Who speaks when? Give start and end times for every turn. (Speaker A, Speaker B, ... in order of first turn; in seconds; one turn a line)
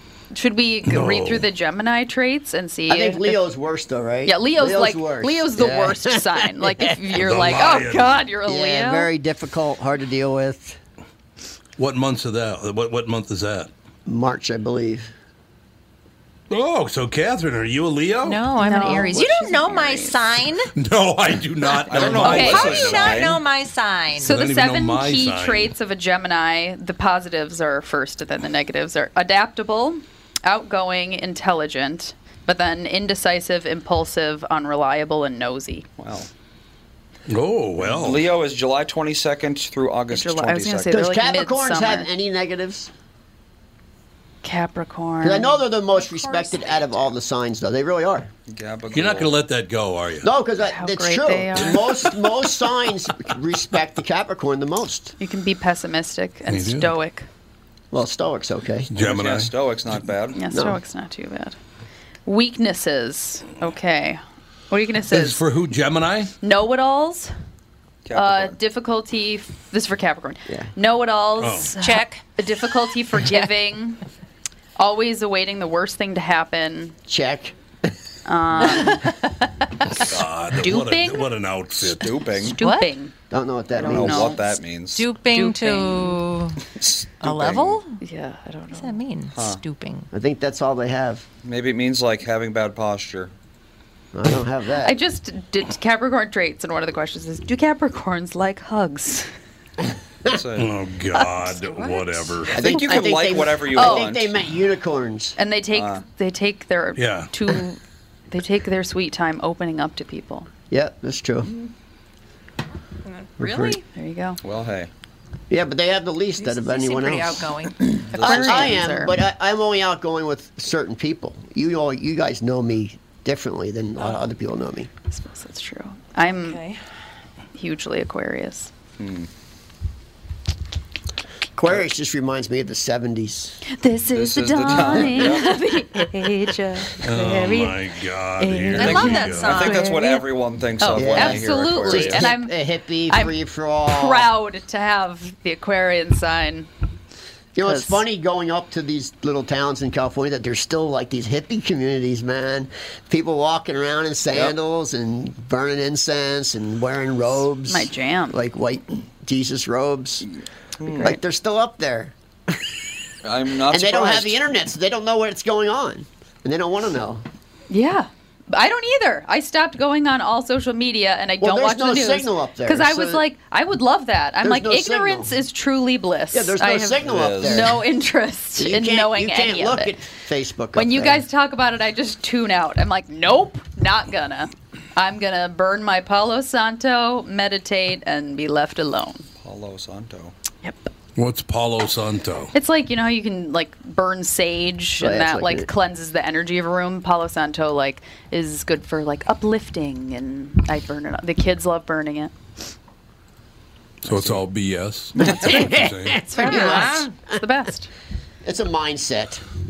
Speaker A: 0.3-3.4
Speaker B: 0.8-1.5
Speaker C: 2.9-7.6
Speaker A: 4.3-9.1
Speaker B: 7.2-8.2
Speaker C: 8.5-10.8
Speaker B: 11.8-13.7
Speaker C: 14.1-15.1
Speaker B: 16.5-18.4
Speaker D: 18.2-20.7
Speaker A: 18.6-20.2
Speaker B: 20.8-23.4
Speaker E: 21.9-23.4
Speaker D: 21.9-24.3
Speaker A: 22.2-22.7
Speaker A: 24.2-35.9
Speaker B: 24.2-25.7
Speaker E: 36.0-36.3
Speaker B: 37.3-38.3
Speaker E: 37.8-41.0
Speaker A: 40.1-42.1
Speaker C: 40.9-42.9
Speaker A: 44.4-46.8
Speaker C: 45.2-48.3
Speaker E: 48.5-49.3
Speaker B: 48.9-50.3
Speaker C: 50.2-55.1
Speaker A: 50.6-51.8
Speaker B: 51.7-52.2
Speaker A: 55.2-57.3
Speaker B: 56.5-56.9
Speaker C: 57.9-58.9
Speaker B: 58.9-60.0
Speaker E: 59.0-60.4
Speaker A: 60.4-61.6
Speaker C: 60.5-60.8
Speaker A: 62.3-65.4
Speaker B: 65.1-66.3
Speaker A: 66.4-67.3
Speaker E: 68.1-68.6
Speaker A: 68.1-74.0
Speaker B: 71.4-71.8
Speaker D: 71.8-72.2
Speaker D: 73.1-73.4
Speaker A: 74.8-77.0
Speaker C: 77.1-77.6
Speaker A: 78.3-79.1
Speaker B: 80.0-82.1
Speaker A: 80.5-81.3
Speaker E: 81.8-82.6
Speaker A: 82.4-83.1
Speaker D: 82.6-82.9
Speaker C: 83.3-84.3
Speaker A: 83.8-84.5
Speaker E: 83.8-85.1
Speaker D: 84.9-86.7
Speaker A: 85.3-86.2
Speaker E: 86.8-87.8
Speaker D: 87.2-88.0
Speaker A: 88.0-89.0
Speaker D: 88.8-90.1
Speaker E: 89.3-89.6
Speaker C: 90.1-91.3
Speaker E: 91.5-93.3
Speaker C: 94.1-95.0
Speaker A: 94.8-99.3
Speaker E: 100.3-100.7
Speaker B: 100.6-102.5
Speaker A: 101.1-104.1
Speaker C: 102.5-105.4
Speaker E: 102.5-104.3
Speaker A: 105.4-107.8
Speaker E: 105.7-106.0
Speaker B: 107.0-107.3
Speaker A: 108.3-110.5
Speaker C: 110.7-111.5
Speaker D: 113.1-113.8
Speaker C: 113.4-113.8
Speaker A: 113.9-114.4
Speaker E: 114.4-114.9
Speaker C: 115.5-117.5
Speaker D: 116.4-118.7
Speaker C: 118.1-124.9
Speaker A: 118.1-119.2
Speaker E: 118.1-118.6
Speaker A: 125.1-126.6
Speaker D: 126.4-126.8
Speaker A: 127.5-128.7
Speaker E: 129.0-129.3
Speaker C: 131.6-133.6
Speaker A: 133.7-137.8
Speaker E: 134.1-135.5
Speaker C: 134.9-135.4
Speaker B: 137.0-139.7
Speaker A: 138.4-140.2
Speaker D: 138.8-140.2
Speaker E: 138.8-142.2
Speaker A: 140.8-142.6
Speaker C: 140.9-144.3
Speaker A: 143.1-143.4
Speaker A: 143.9-146.7
Speaker C: 147.6-160.3
Speaker A: 147.6-148.0
Speaker A: 157.7-158.4
Speaker E: 160.8-161.2
Speaker A: 160.9-161.2
Speaker C: 161.0-162.6
Speaker E: 163.2-164.4
Speaker C: 163.7-167.2
Speaker A: 167.7-179.9
Speaker C: 171.4-173.2
Speaker C: 174.4-175.3
Speaker C: 176.3-177.8
Speaker E: 177.0-177.7
Speaker C: 178.6-181.2
Speaker A: 180.7-189.2
Speaker E: 189.4-190.3
Speaker A: 190.6-190.9
Speaker B: 191.2-192.5
Speaker A: 192.5-202.3
Speaker C: 195.0-195.7
Speaker B: 204.0-206.3
Speaker E: 204.1-204.4
Speaker C: 205.2-207.3
Speaker D: 206.3-207.1
Speaker A: 206.3-207.9
Speaker C: 208.4-209.4